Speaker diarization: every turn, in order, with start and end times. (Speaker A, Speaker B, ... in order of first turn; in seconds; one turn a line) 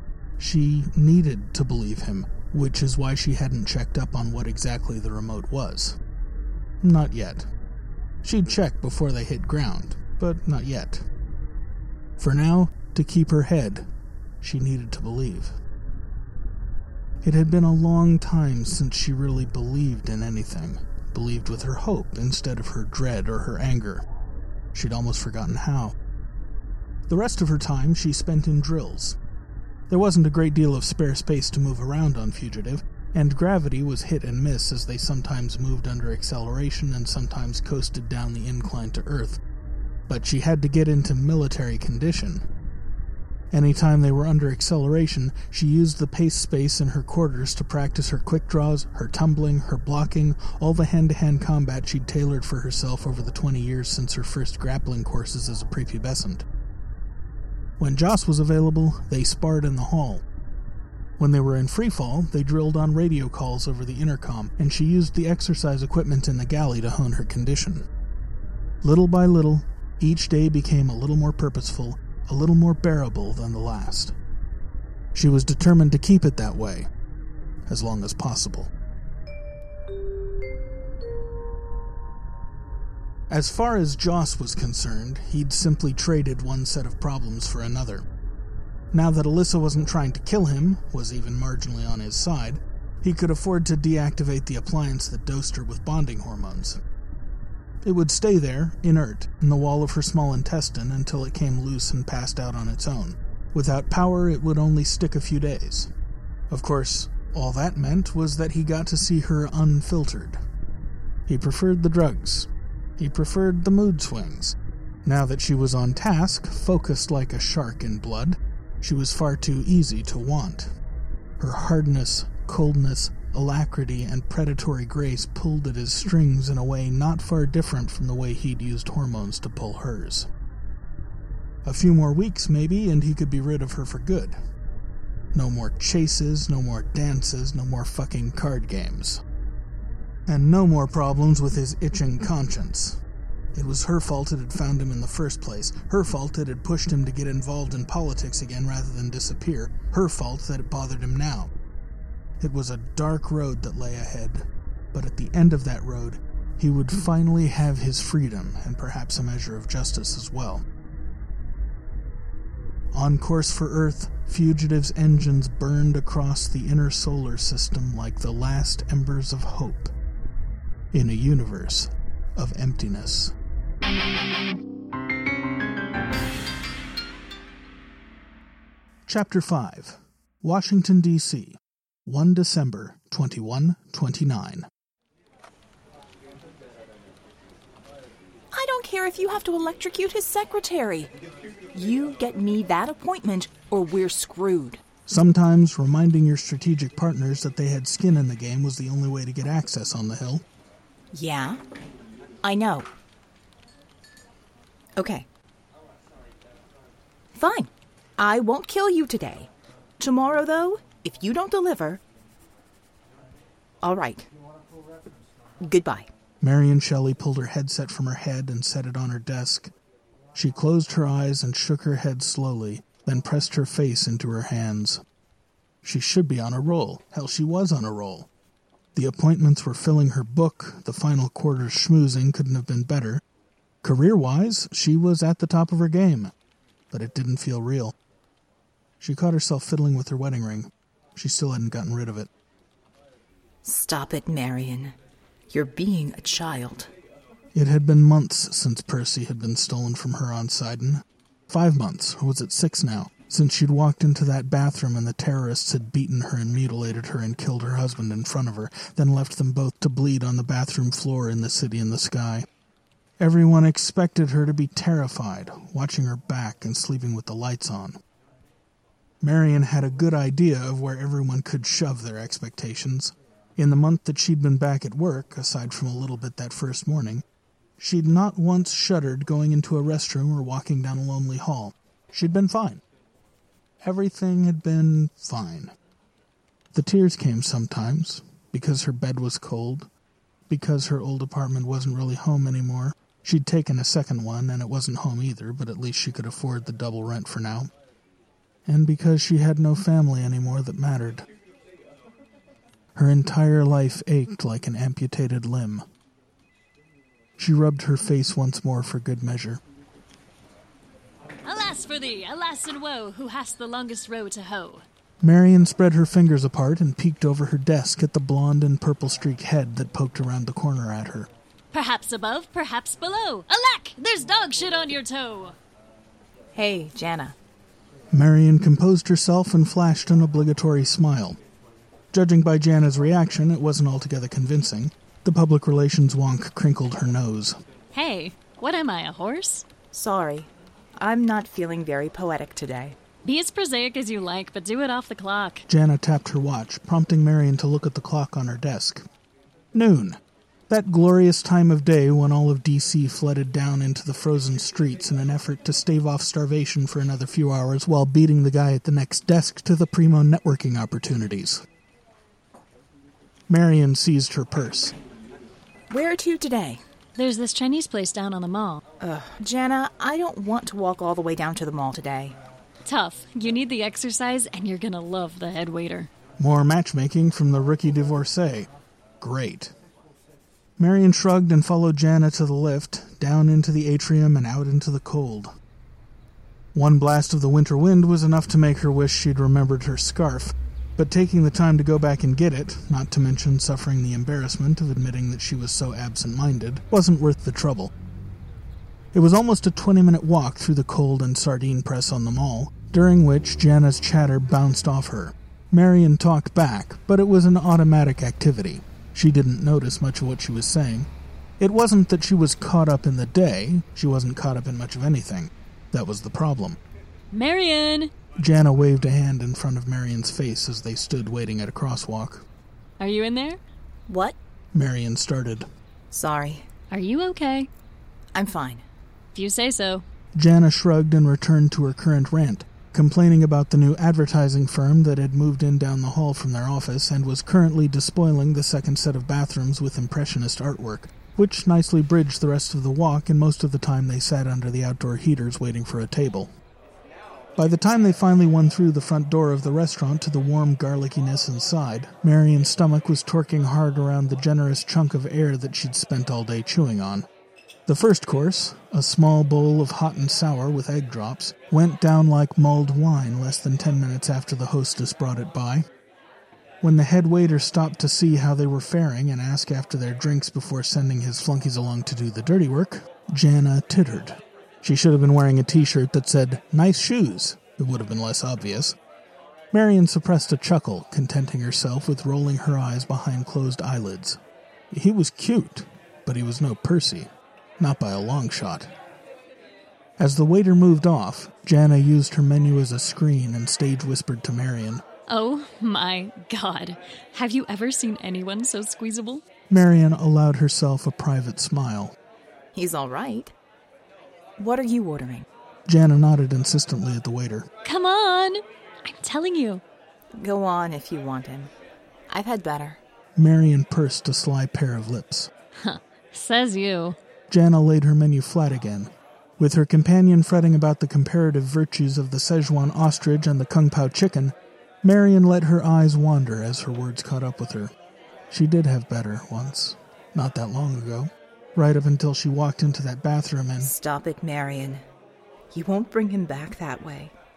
Speaker A: 0.4-6.0
Speaker A: 6.8-7.5
Speaker A: 8.2-11.1
Speaker A: 12.2-13.9
Speaker A: 14.4-15.6
Speaker A: 17.2-24.1
Speaker A: 24.7-25.9
Speaker A: 27.1-29.2
Speaker A: 29.9-39.4
Speaker A: 40.1-42.5
Speaker A: 43.5-56.5
Speaker A: 57.8-60.2
Speaker A: 61.2-67.9
Speaker A: 68.8-74.2
Speaker A: 75.1-76.9
Speaker A: 77.7-78.7
Speaker A: 83.3-88.0
Speaker A: 88.9-96.8
Speaker A: 97.8-105.9
Speaker A: 106.5-110.4
Speaker A: 111.3-120.7
Speaker A: 121.4-130.3
Speaker A: 131.6-134.4
Speaker A: 135.3-139.2
Speaker A: 140.3-143.0
Speaker A: 143.5-151.5
Speaker A: 152.4-160.6
Speaker A: 162.9-169.9
Speaker A: 170.9-173.3
Speaker A: 179.1-184.7
Speaker B: 188.5-191.1
Speaker B: 191.7-194.8
Speaker A: 195.1-200.4
Speaker B: 201.1-201.6
Speaker B: 202.4-202.9
Speaker B: 205.0-205.3
Speaker B: 207.3-212.0
Speaker B: 213.8-214.3
Speaker B: 215.6-216.1
Speaker A: 216.4-219.7
Speaker A: 220.3-225.0
Speaker A: 225.8-228.3
Speaker A: 228.9-233.2
Speaker A: 233.8-236.3
Speaker A: 236.9-237.9
Speaker A: 239.0-242.3
Speaker B: 243.6-245.0
Speaker B: 245.5-246.9
Speaker A: 247.5-262.5
Speaker A: 263.2-268.0
Speaker A: 269.2-277.2
Speaker A: 277.8-282.8
Speaker A: 283.8-285.7
Speaker A: 286.7-289.9
Speaker A: 290.5-297.7
Speaker A: 298.7-301.2
Speaker A: 302.9-305.9
Speaker A: 307.4-309.6
Speaker C: 311.4-314.9
Speaker A: 315.2-321.3
Speaker C: 321.7-325.5
Speaker B: 326.5-327.4
Speaker A: 328.1-331.4
Speaker A: 332.1-337.6
Speaker C: 337.9-339.6
Speaker B: 339.9-343.0
Speaker C: 343.2-345.6
Speaker A: 345.7-349.1
Speaker A: 349.7-361.6
Speaker A: 363.5-364.9
Speaker B: 365.9-366.8
Speaker C: 367.1-368.8
Speaker B: 369.0-372.4
Speaker C: 372.9-376.1
Speaker A: 376.4-379.7
Speaker A: 380.8-385.5
Speaker A: 386.8-397.9
Speaker A: 399.1-416.8
Speaker C: 417.3-418.1
Speaker A: 418.4-422.4
Speaker C: 423.0-423.6
Speaker B: 424.1-424.4
Speaker A: 424.7-425.7
Speaker B: 426.1-426.6
Speaker C: 426.9-427.7
Speaker B: 428.3-428.8
Speaker C: 429.3-430.0
Speaker A: 430.4-446.5
Speaker A: 447.6-457.3
Speaker A: 457.9-465.9
Speaker A: 466.8-479.0
Speaker A: 479.7-484.4
Speaker A: 484.9-488.9
Speaker A: 490.2-495.0
Speaker C: 495.3-499.4
Speaker A: 499.7-502.2
Speaker B: 502.8-503.5
Speaker B: 504.6-505.5
Speaker A: 505.9-507.7
Speaker C: 507.8-509.8
Speaker B: 510.4-511.7
Speaker B: 512.3-513.0
Speaker A: 513.4-515.5
Speaker C: 515.8-517.2
Speaker A: 517.5-527.9
Speaker A: 528.5-533.9
Speaker B: 533.8-535.0
Speaker B: 535.7-537.3